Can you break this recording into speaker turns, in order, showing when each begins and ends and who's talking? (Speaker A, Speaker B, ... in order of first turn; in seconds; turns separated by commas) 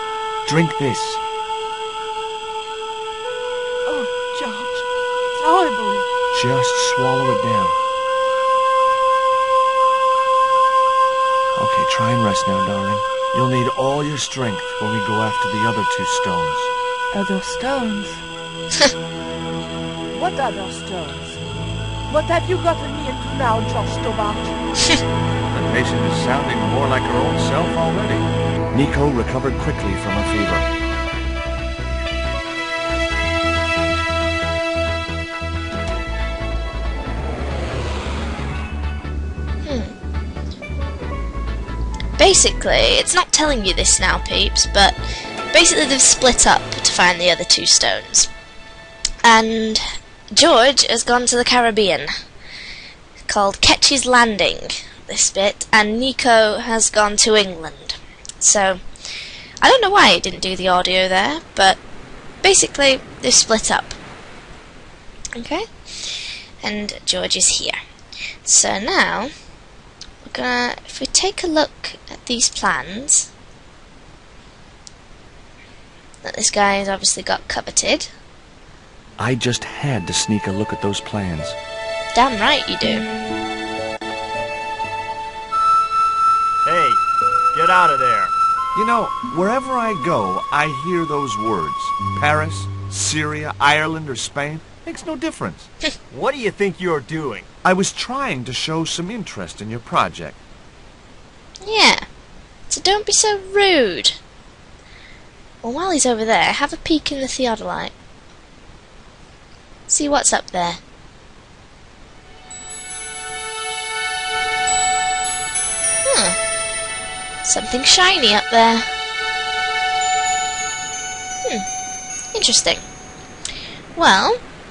Speaker A: 0.5-1.2, Speaker B: 3.9-4.8, Speaker B: 5.4-6.1, Speaker A: 6.3-7.8, Speaker A: 11.6-16.7, Speaker B: 17.1-18.2, Speaker B: 20.1-21.4, Speaker B: 22.1-24.6, Speaker A: 25.5-30.7, Speaker C: 39.6-39.9, Speaker C: 42.2-45.0, Speaker C: 45.5-48.3, Speaker C: 49.2-52.1, Speaker C: 53.3-58.8, Speaker C: 59.6-61.8, Speaker C: 62.4-64.0, Speaker C: 65.4-67.8, Speaker C: 68.4-69.3, Speaker C: 70.2-73.3, Speaker C: 76.2-78.1, Speaker A: 79.2-81.6, Speaker C: 82.2-83.1, Speaker D: 86.6-88.3, Speaker A: 88.7-95.7, Speaker D: 96.1-97.5, Speaker A: 97.6-100.4, Speaker C: 101.6-102.1, Speaker C: 102.7-104.2, Speaker C: 105.6-107.9, Speaker C: 109.9-110.8, Speaker C: 116.0-116.4, Speaker C: 117.4-118.9, Speaker C: 122.3-122.8, Speaker C: 124.0-124.4